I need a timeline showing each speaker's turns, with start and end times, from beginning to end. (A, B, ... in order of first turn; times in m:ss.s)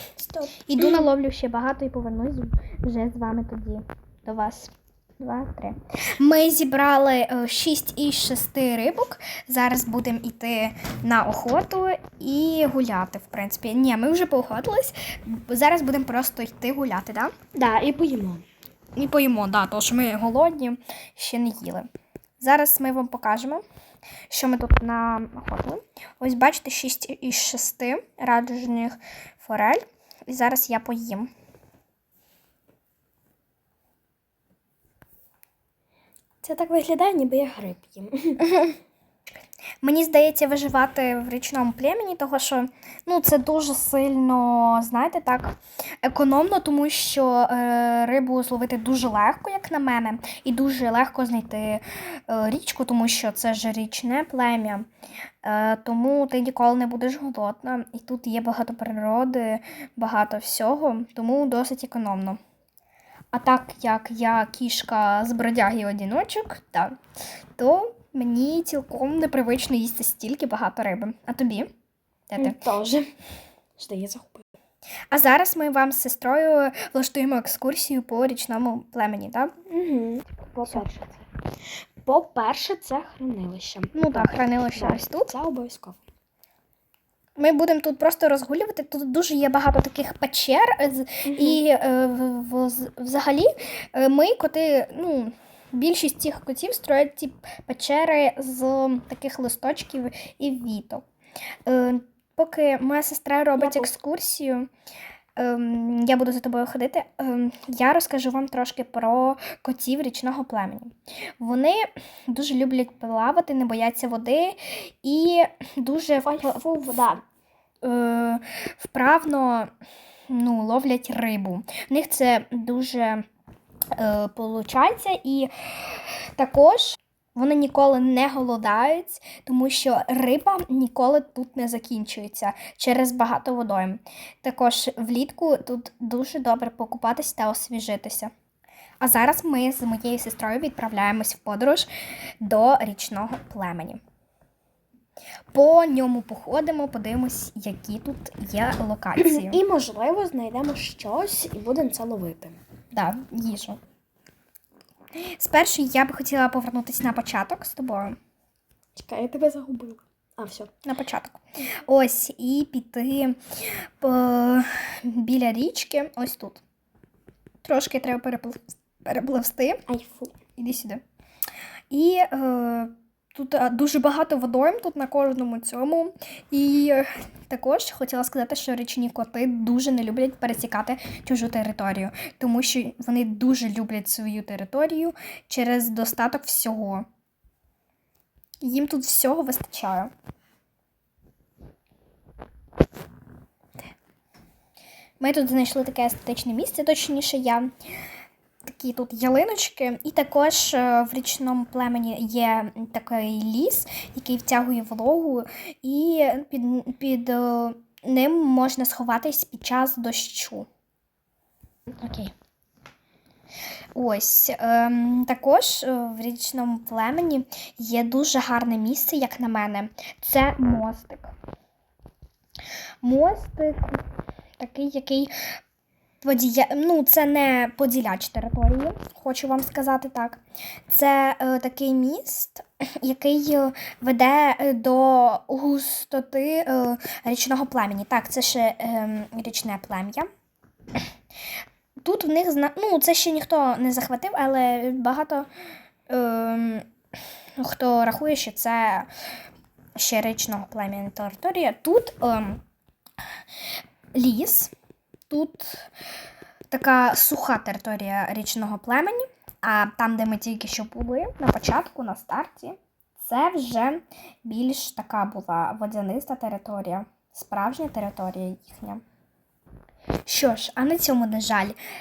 0:00.2-0:01.1 A
0:00.7-0:17.3 B
0:17.5-0:18.4 A
0:19.0-0:21.9 B
0:22.4-0:23.6 B
0:24.3-0:31.3 B
0:36.4-0:38.4 A
0:38.4-0:38.8 B
0:39.8-0:54.9 B
0:55.4-1:02.4 B
1:03.3-1:06.9 B
1:07.6-1:11.7 B
1:12.3-1:12.6 B
1:12.4-1:13.1 A
1:13.8-1:14.4 A
1:15.1-1:19.5 B
1:19.7-1:21.2 A
1:22.0-1:26.0 A
1:23.9-1:25.3 B
1:27.4-1:41.0 B
1:31.2-1:31.6 A
1:41.6-1:44.7 B
1:43.6-1:43.9 A
1:45.4-1:56.9 B
1:56.2-1:57.2 A
1:57.8-1:59.7 B
2:00.3-2:03.2 B
2:03.9-2:18.3 B
2:19.0-2:21.9 B
2:22.4-2:24.0 B
2:25.5-2:29.6 B
2:29.2-2:32.6 A
2:32.9-2:33.8 B
2:35.2-2:38.2 B
2:39.0-2:40.7 A
2:40.8-2:43.4 B
2:44.0-2:46.6 B
2:47.6-2:49.8 B
2:49.9-2:50.3 A
2:50.6-2:51.0 B
2:51.9-3:07.0 B
3:08.6-3:10.1 B
3:15.2-3:17.7 B
3:18.6-3:30.7 B
3:31.9-3:32.3 B
3:33.9-3:41.3 B
3:43.0-3:44.0 B
3:44.6-3:45.3 B
3:46.2-4:00.3 B
4:02.0-4:05.5 B
4:06.1-4:06.9 B
4:07.6-4:09.1 B
4:10.0-4:12.6 B
4:14.1-4:14.7 B
4:15.3-4:15.9 B
4:16.7-4:29.0 B
4:30.2-4:31.8 B